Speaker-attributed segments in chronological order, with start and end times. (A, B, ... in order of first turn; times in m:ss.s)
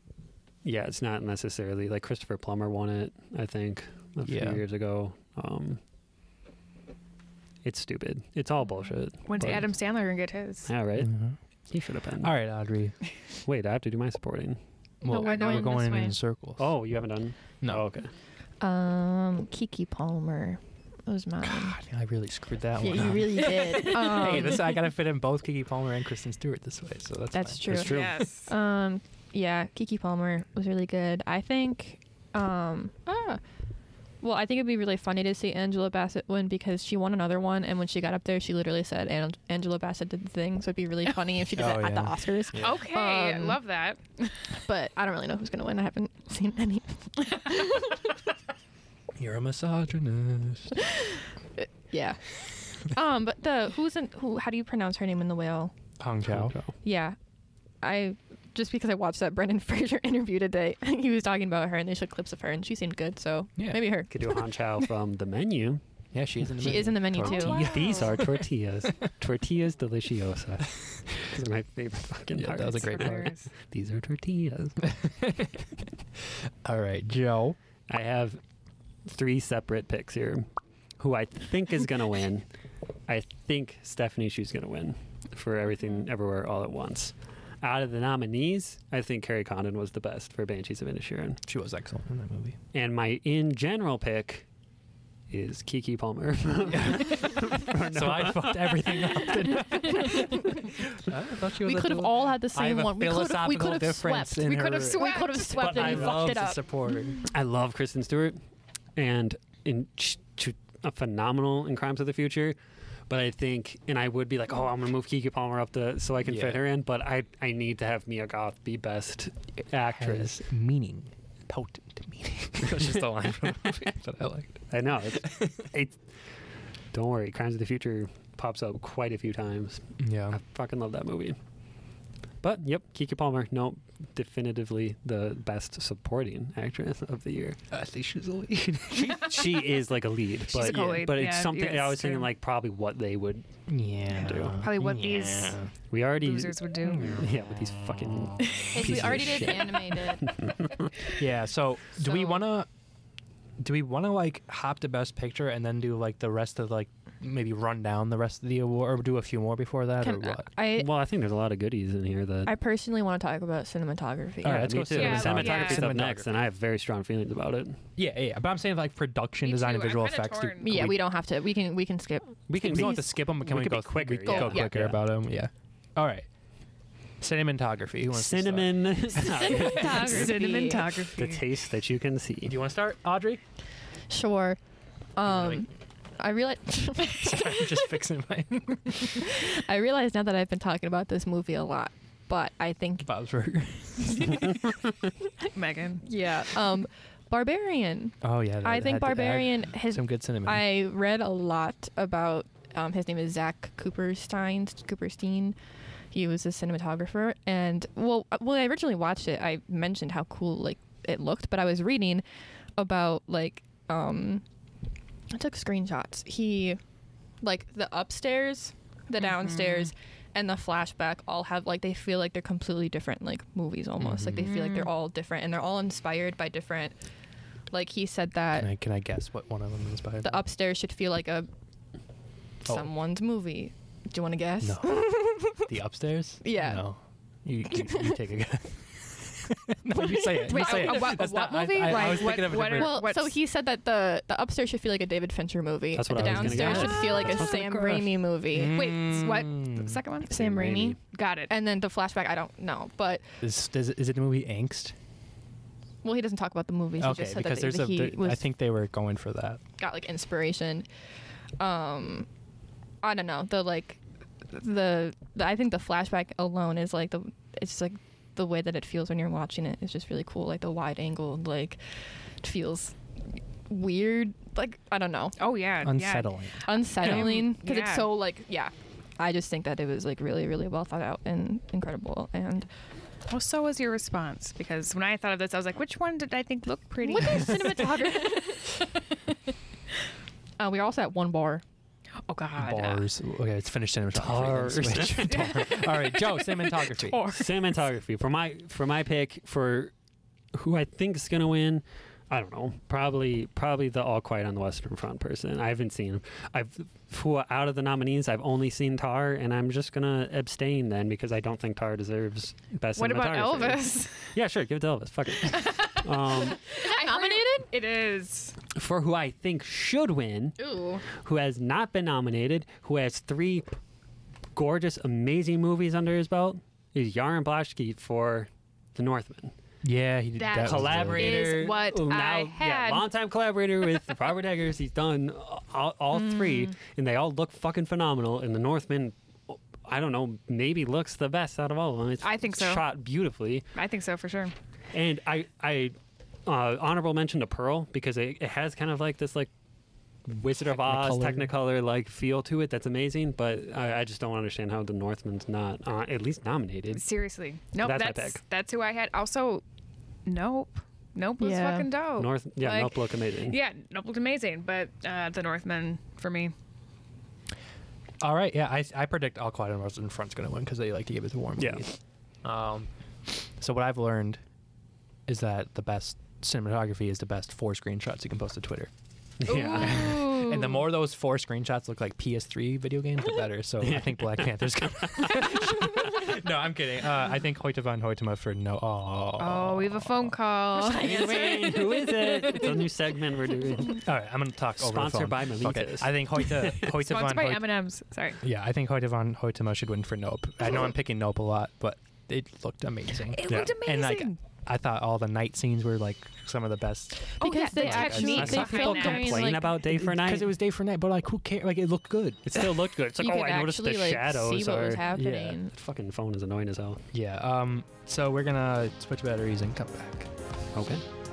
0:00.6-0:05.8 A
0:04.2-0:04.6 B
0:07.6-0:09.7 A
0:09.3-0:10.7 C
0:10.7-0:11.1 A
0:11.0-0:11.4 B
0:11.7-0:12.3 A
0:12.2-0:13.0 B
0:13.4-0:14.6 A
0:15.0-0:16.7 B
0:15.1-0:16.2 D
0:15.1-0:16.2 C
0:16.6-0:18.1 A
0:18.6-0:21.8 D
0:21.4-0:28.3 B
0:22.8-0:24.7 D
0:27.3-0:33.4 D
0:27.6-0:28.2 A
0:27.8-0:28.5 C
0:34.2-0:43.6 D
0:41.6-0:42.8 B
0:42.6-0:44.0 C
0:44.6-0:48.1 D
0:49.2-0:50.7 B
0:51.6-0:55.8 D
0:56.0-0:56.6 B
0:56.3-0:56.7 A
0:56.8-0:57.2 D
0:57.8-1:04.2 D
1:03.6-1:03.9 B
1:04.1-1:05.8 A
1:06.1-1:08.3 B
1:06.6-1:08.0 D
1:07.2-1:08.1 C
1:07.2-1:14.8 A
1:12.3-1:13.3 B
1:12.6-1:13.5 C
1:14.8-1:15.7 B
1:16.6-1:17.6 B
1:17.9-1:18.4 A
1:19.1-1:20.5 A
1:21.0-1:22.5 A
1:23.1-1:31.4 A
1:31.5-1:32.6 B
1:32.7-1:34.5 A
1:35.3-1:39.5 A
1:36.7-1:47.2 B
1:39.7-1:40.6 D
1:41.6-1:46.6 D
1:44.4-1:46.2 C
1:45.6-1:46.4 A
1:47.3-1:48.4 A
1:49.0-1:52.6 A
1:53.1-2:00.4 A
1:56.2-1:56.6 B
1:59.9-2:05.7 B
2:04.7-2:06.0 A
2:06.9-2:11.4 A
2:10.0-2:10.4 B
2:12.4-2:17.6 A
2:17.7-2:19.3 B
2:18.9-2:23.5 A
2:20.5-2:22.3 C
2:20.6-2:21.0 B
2:23.7-2:25.7 B
2:24.1-2:24.6 A
2:24.6-2:25.6 C
2:25.9-2:30.6 A
2:26.1-2:27.2 C
2:26.8-2:27.2 B
2:28.7-2:30.3 D
2:31.1-2:32.7 B
2:33.6-2:40.5 B
2:40.0-2:40.9 D
2:40.6-2:42.5 A
2:42.5-2:44.8 D
2:44.4-2:46.3 B
2:44.4-2:47.8 A
2:45.0-2:46.0 C
2:48.0-2:51.0 B
2:49.4-2:50.9 C
2:50.6-2:53.0 D
2:52.5-2:55.0 A
2:52.6-2:56.3 B
2:54.3-2:54.7 D
2:57.2-2:59.5 B
2:58.1-3:00.3 A
2:59.2-3:00.9 D
2:59.8-3:01.4 C
3:01.2-3:02.6 A
3:02.5-3:03.4 B
3:04.1-3:04.6 D
3:05.2-3:07.8 D
3:05.3-3:05.6 B
3:07.1-3:09.3 B
3:09.1-3:13.1 D
3:13.0-3:14.6 B
3:15.5-3:16.0 C
3:16.0-3:25.6 D
3:18.2-3:20.7 B
3:26.1-3:32.2 D
3:32.8-3:34.4 D
3:35.3-3:36.8 D
3:37.4-3:47.0 D
3:39.5-3:39.9 C
3:44.0-3:44.5 B
3:44.4-3:44.9 C
3:47.7-3:48.7 D
3:48.6-3:50.4 B
3:50.2-3:51.5 D
3:52.6-3:55.7 D
3:54.6-4:03.1 B
3:56.4-3:56.9 D
3:57.7-3:58.2 D
4:00.0-4:01.1 D
4:00.3-4:03.4 C
4:02.7-4:09.0 D
4:06.0-4:08.2 A
4:06.1-4:07.2 B
4:08.5-4:10.0 B
4:08.6-4:10.3 C
4:10.3-4:11.0 D
4:10.3-4:11.0 A
4:11.0-4:11.5 C
4:11.5-4:13.3 D
4:13.4-4:15.0 B
4:16.0-4:18.4 D
4:17.0-4:19.6 B
4:19.8-4:20.9 D
4:21.6-4:22.3 D
4:23.0-4:31.8 D
4:32.4-4:33.0 D
4:33.7-4:35.4 D
4:35.4-4:38.1 C
4:35.8-4:36.6 B
4:36.6-4:42.7 D
4:43.3-4:47.8 C
4:47.0-4:49.0 D
4:50.6-4:51.6 D
4:52.3-4:53.0 C
4:52.6-4:57.3 B
4:54.1-4:55.7 A
4:55.2-4:57.6 C
4:57.3-4:59.9 A
5:00.5-5:16.6 A
5:13.0-5:14.3 C
5:15.5-5:18.6 C
5:16.7-5:17.7 D
5:18.8-5:20.6 A
5:20.6-5:21.0 D
5:21.1-5:23.7 A
5:24.5-5:29.5 A
5:29.8-5:31.8 B
5:30.4-5:33.0 C
5:30.5-5:43.7 A
5:42.2-5:42.8 C
5:43.8-5:44.5 C
5:44.9-5:49.5 A
5:50.3-5:57.0 A
5:50.6-5:51.5 B
5:56.9-5:59.6 C
5:57.8-5:58.4 A
6:00.3-6:06.5 C
6:01.4-6:01.9 D
6:02.2-6:03.6 A
6:08.2-6:14.4 B
6:11.6-6:11.8 A
6:15.3-6:18.9 B
6:19.4-6:20.2 A
6:19.5-6:20.3 C
6:19.5-6:20.4 D
6:19.7-6:30.4 B
6:23.8-6:25.9 A
6:29.4-6:31.5 C
6:30.8-6:32.9 D
6:30.9-6:34.1 A
6:33.9-6:37.8 B
6:34.8-6:36.9 A
6:36.8-6:38.4 C
6:38.4-6:48.8 B
6:43.3-6:44.4 C
6:43.5-6:43.8 A
6:47.4-6:49.6 C
6:47.4-6:49.8 D
6:48.0-6:50.5 A
6:49.8-6:52.7 B
6:52.5-6:55.2 A
6:53.2-6:55.7 D
6:55.1-6:55.6 B
6:55.7-6:57.0 A
6:57.1-7:00.3 B
7:00.7-7:01.0 A